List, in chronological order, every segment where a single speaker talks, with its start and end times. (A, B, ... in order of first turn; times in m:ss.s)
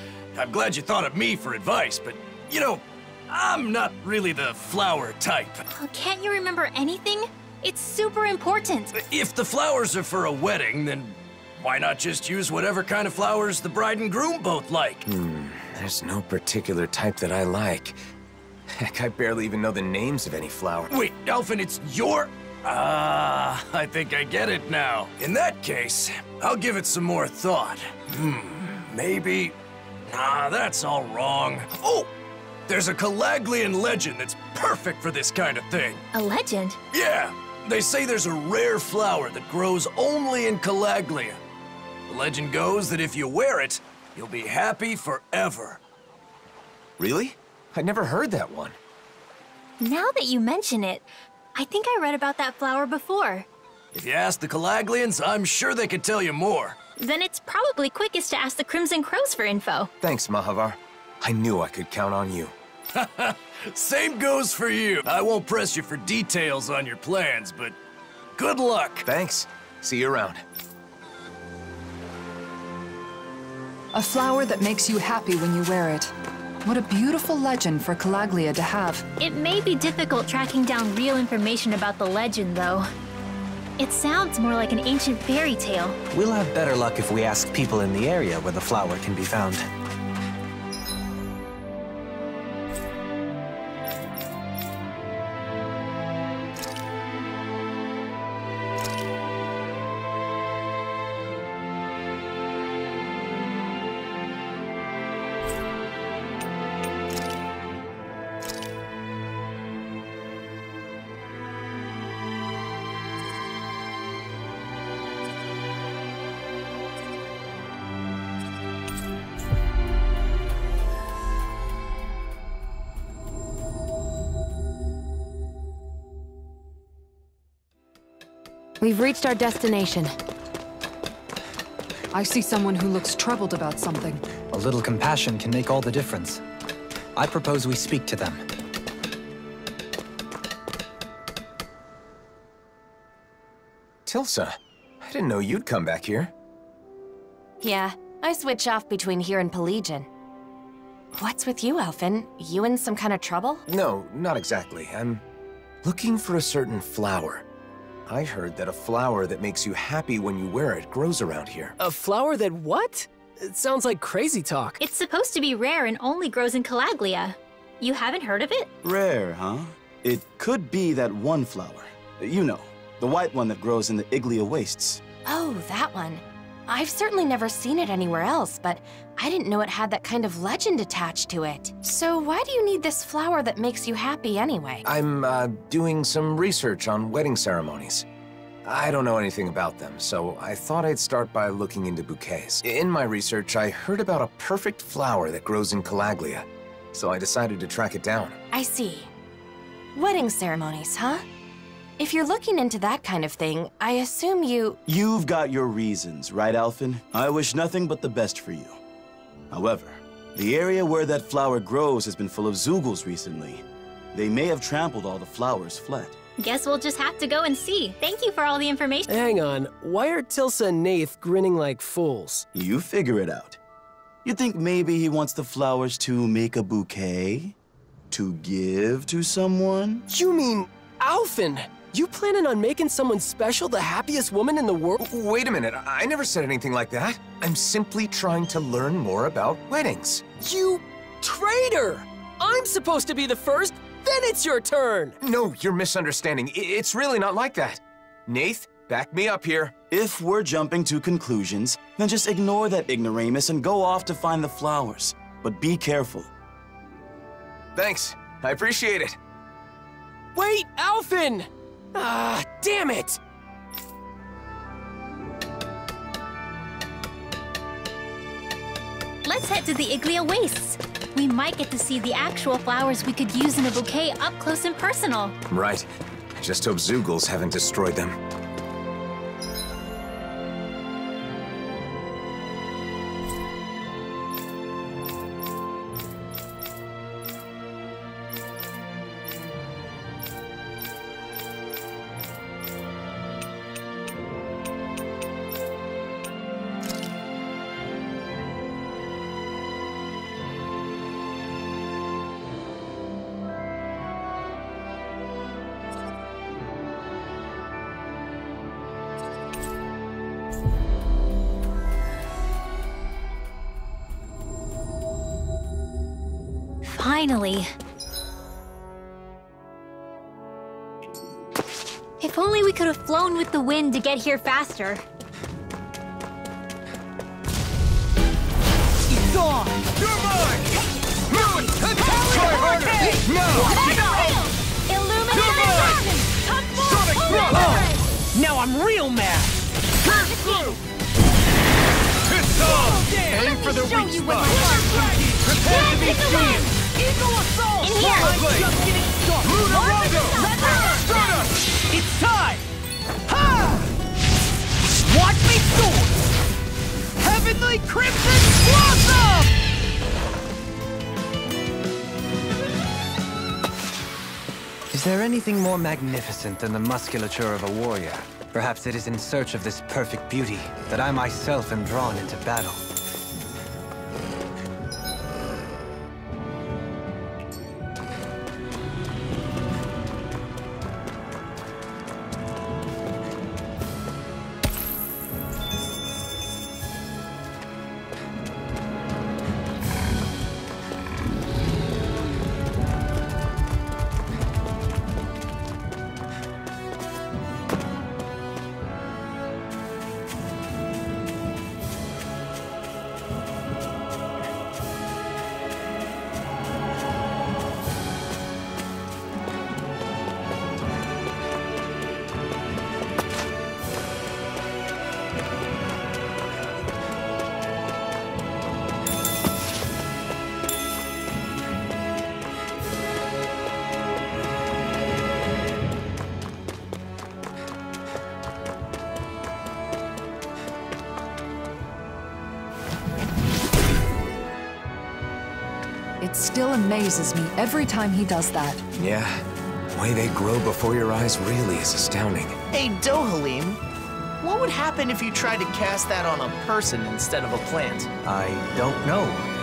0:00.3-0:05.6 A
0:05.7-0:09.0 B
0:09.0-0:15.0 A
0:15.0-0:18.0 C
0:18.7-0:20.9 C
0:20.9-0:29.6 A
0:30.1-0:32.1 A
0:32.7-0:36.0 A
0:36.1-0:36.8 B
0:36.9-0:41.4 A
0:42.1-0:45.8 A
0:47.0-0:48.8 C
0:49.8-0:53.5 B
0:53.9-0:56.8 A
0:57.0-0:59.9 B
1:00.0-1:02.5 C
1:03.0-1:07.8 A
1:08.4-1:09.1 A
1:09.0-1:10.4 C
1:13.9-1:16.1 D
1:16.6-1:19.0 D
1:19.2-1:22.9 B
1:23.8-1:26.0 B
1:26.1-1:29.7 E
2:08.8-2:10.1 F
2:12.1-2:14.2 D
2:14.5-2:16.4 E
2:17.2-2:18.4 E
2:24.1-2:26.3 C
2:27.6-2:30.1 F
2:31.1-2:33.6 F
2:33.7-2:35.2 C
2:35.8-2:37.4 C
2:38.1-2:41.8 C
2:41.8-2:44.8 G
2:44.8-2:48.7 B
2:48.8-2:55.0 H
2:55.2-3:04.8 F
3:04.8-3:08.0 C
3:08.6-3:18.4 C
3:18.5-3:19.1 F
3:20.0-3:21.2 F
3:22.0-3:24.8 F
3:24.9-3:28.8 H
3:29.5-3:36.2 H
3:36.4-3:39.2 B
3:39.1-3:42.5 G
3:42.5-3:43.6 H
3:44.2-3:47.6 H
3:48.1-3:50.1 H
3:50.1-3:55.0 G
3:55.0-4:00.2 C
4:00.4-4:05.2 G
4:05.2-4:09.7 C
4:09.9-4:16.3 H
4:17.8-4:19.2 C
4:20.4-4:23.2 G
4:29.2-4:35.4 B
4:35.5-4:38.2 C
5:16.8-5:17.7 B
5:22.2-5:25.0 B
5:30.0-5:30.6 A
5:31.4-5:33.1 A
5:33.2-5:33.8 C
5:33.8-5:38.0 B
5:35.3-5:36.0 A
5:36.9-5:37.4 A
5:37.6-5:39.5 I
5:40.4-5:40.7 B
5:42.3-5:43.1 A
5:43.4-5:44.3 C
5:44.6-5:46.2 J
5:45.6-5:46.6 A
5:45.6-5:46.7 B
5:47.2-5:51.1 J
5:47.8-5:48.5 B
5:49.5-5:50.3 A
5:50.3-5:50.6 B
6:04.9-6:12.8 E
7:16.2-7:18.8 D
7:19.0-7:22.6 C
7:22.7-7:23.8 I
7:24.4-7:28.1 I
7:28.2-7:29.5 E